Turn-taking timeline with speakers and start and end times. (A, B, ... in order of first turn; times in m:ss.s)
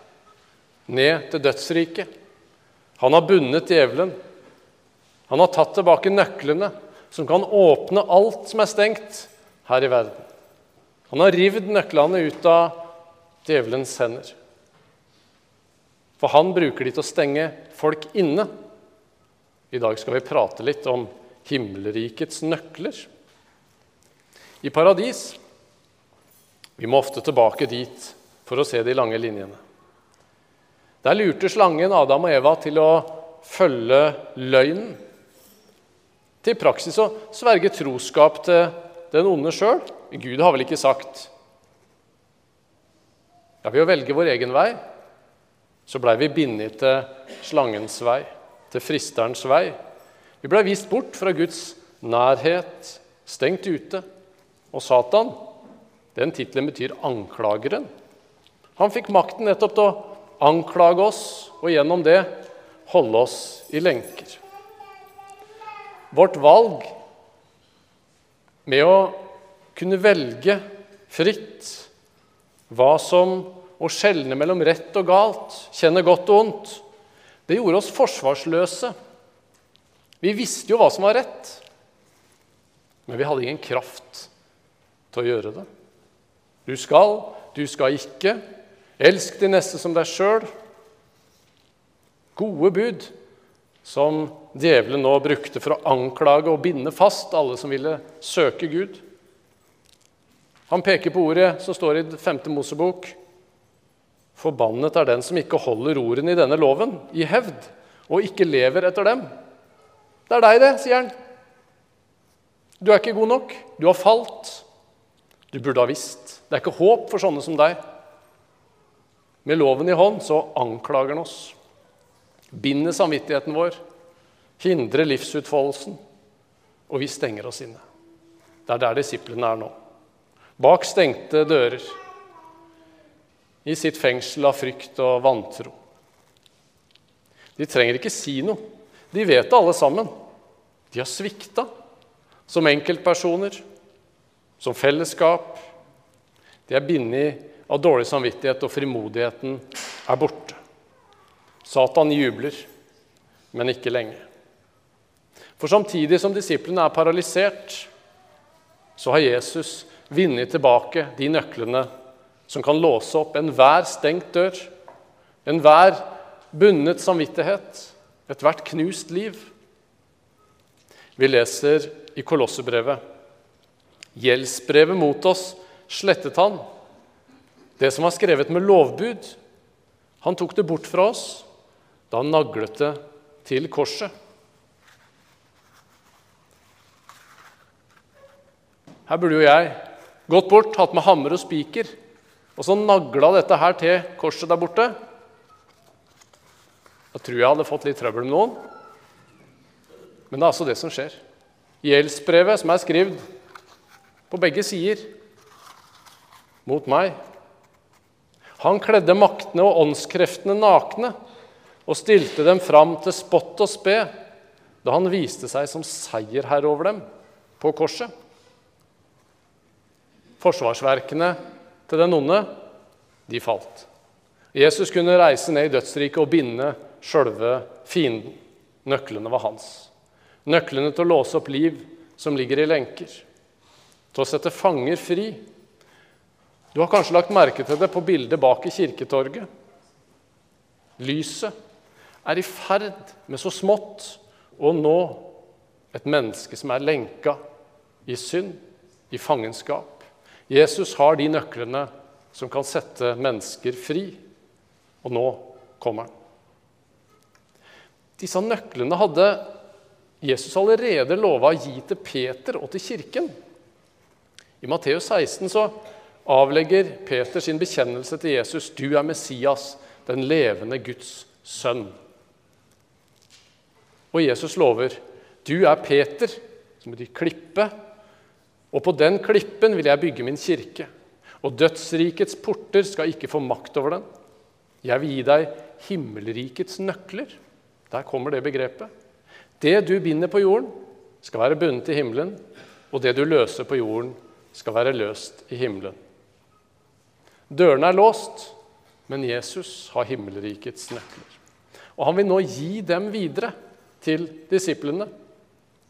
0:00.9-0:02.1 A
0:03.0-0:04.1 A
0:05.3-0:10.3 A
0:11.1-0:12.9 A
0:13.4-0:14.4 A
0:16.2-0:18.5 A
0:19.7-0:23.1 A
0:24.6-0:25.4 A
0:26.8-0:29.6 A
0:31.0-0:35.0 A
0:36.4-0:41.3 A
0:43.6-0:44.8 A
0:45.9-0:49.8 A
0:50.4-0:54.0 A
0:54.7-0:55.4 A
0:56.2-0:57.9 A
0:58.8-1:04.4 A
1:06.1-1:06.9 A
1:08.7-1:09.2 A
1:09.8-1:11.9 A
1:12.7-1:16.8 A
1:17.5-1:18.9 A
1:20.2-1:21.6 A
1:23.1-1:24.3 A
1:25.1-1:25.7 A
1:26.7-1:28.4 A
1:29.0-1:30.5 A
1:32.4-1:33.1 A
1:33.8-1:39.0 A
1:40.7-1:43.2 A
1:44.4-1:49.3 A
1:50.3-1:51.1 A
1:52.8-1:54.6 A
1:55.5-1:57.8 A
1:59.4-2:01.6 A
2:02.5-2:03.8 A
2:04.6-2:06.0 A
2:06.9-2:07.8 A
2:08.7-2:09.7 A
2:10.6-2:12.0 A
2:13.6-2:15.7 A
2:17.6-2:20.1 A
2:20.9-2:21.7 A
2:22.5-2:23.6 A
2:24.6-2:25.7 A
2:26.7-2:30.6 A
2:31.6-2:32.7 A
2:33.5-2:34.2 A
2:35.6-2:37.9 A
2:39.0-2:41.9 A
2:42.5-2:44.7 A
2:45.4-2:49.5 A
2:51.2-2:53.0 A
2:54.2-2:56.6 A
2:57.8-2:59.4 A
3:00.2-3:01.5 A
3:02.1-3:04.1 A
3:09.1-3:11.9 A
3:12.6-3:14.9 A
3:17.1-3:18.6 A
3:20.3-3:21.2 A
3:21.8-3:23.2 A
3:24.3-3:25.1 A
3:26.7-3:27.2 A
3:28.6-3:31.1 A
3:31.9-3:34.1 A
3:34.8-3:37.0 A
3:37.6-3:38.1 A
3:40.4-3:41.4 A
3:41.9-3:42.5 A
3:43.3-3:43.9 A
3:44.5-3:49.9 A
3:50.5-3:53.2 A
3:54.1-3:55.4 A
3:56.7-3:59.5 A
4:01.0-4:01.5 A
4:02.2-4:05.3 A
4:05.9-4:07.4 A
4:08.1-4:08.6 A
4:09.1-4:14.2 A
4:15.0-4:16.1 A
4:18.2-4:19.5 A
4:20.2-4:23.3 A
4:24.6-4:32.0 A
4:34.1-4:37.7 A
4:38.7-4:40.9 A
4:41.4-4:44.0 A
4:44.8-4:47.4 A
4:47.9-4:48.9 A
4:49.6-4:52.4 A
4:52.9-4:56.0 A
4:57.5-4:58.5 A
4:59.1-5:01.4 A
5:02.0-5:05.1 A